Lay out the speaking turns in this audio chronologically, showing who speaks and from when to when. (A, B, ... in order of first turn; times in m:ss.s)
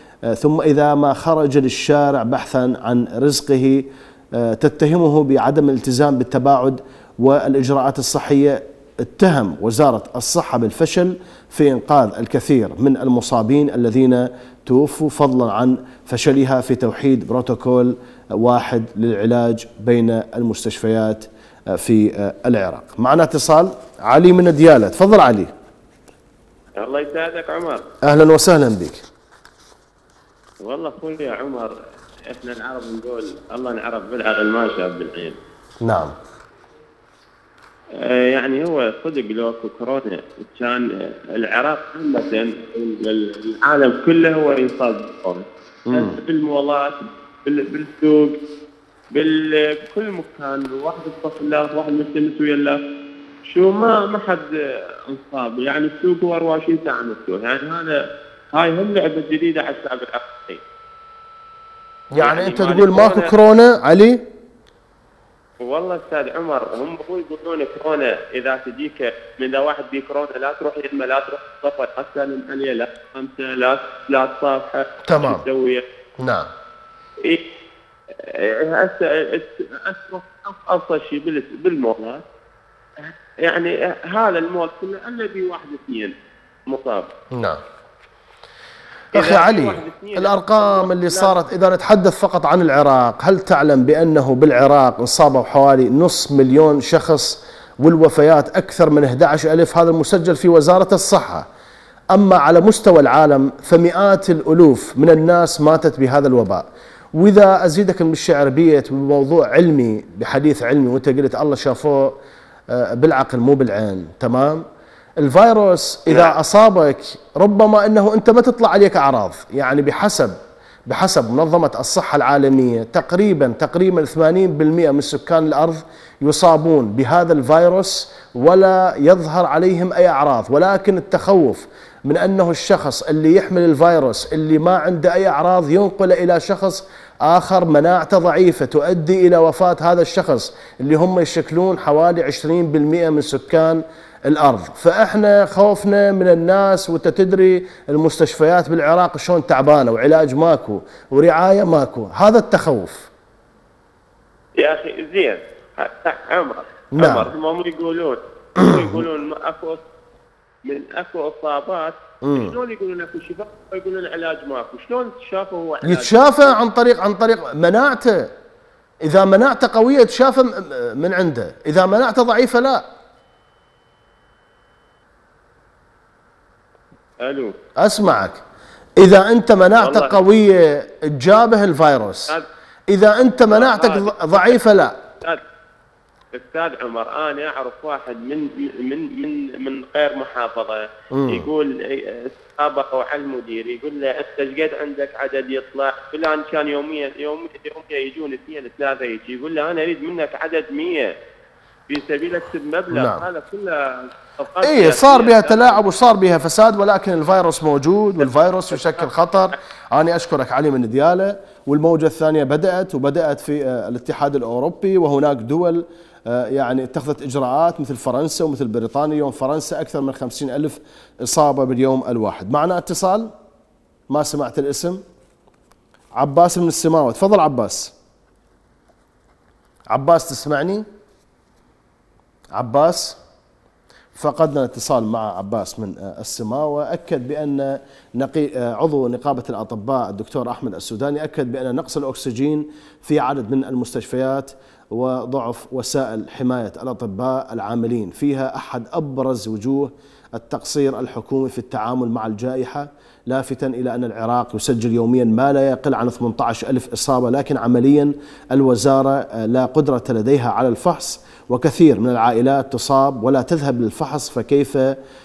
0:00.3-0:25.5 A
0:26.8-0:27.8 B
0:28.0-0:29.0 A
0:30.6-0:31.7 B
0:32.3-0:35.4 B
0:35.8-0:36.1 A
0:38.0-0:48.4 B
0:45.9-0:46.2 A
0:49.1-0:52.8 B
0:53.5-0:54.5 B
0:55.1-0:58.0 B
0:58.5-1:00.6 B
1:02.1-1:04.3 A
1:02.2-1:03.3 B
1:05.6-1:15.8 B
1:15.1-1:15.4 A
1:16.2-1:16.5 A
1:18.2-1:22.2 B
1:23.0-1:26.1 B
1:26.7-1:27.1 B
1:27.3-1:27.6 A
1:29.1-1:41.5 A
1:29.1-1:31.4 B
1:42.1-1:52.2 A
1:52.7-1:54.6 A
1:55.2-2:33.1 A
2:34.6-2:39.8 B
2:37.0-2:37.3 A
2:38.6-2:39.0 A
2:40.6-2:46.6 B
2:42.2-2:42.6 A
2:45.8-2:48.3 A
2:49.0-2:52.9 A
2:57.2-2:57.6 B
2:57.8-2:58.4 A
2:59.0-3:02.3 A
2:59.8-3:00.2 B
3:02.9-3:05.0 A
3:03.5-3:05.4 B
3:06.3-3:21.1 B
3:11.1-3:11.5 A
3:21.9-3:25.8 B
3:22.9-3:23.2 A
3:24.6-3:43.3 A
3:28.2-3:29.1 B
3:44.1-3:45.0 A
3:46.2-3:47.9 A
3:49.9-3:50.8 A
3:52.5-3:53.2 A
3:54.2-4:25.0 A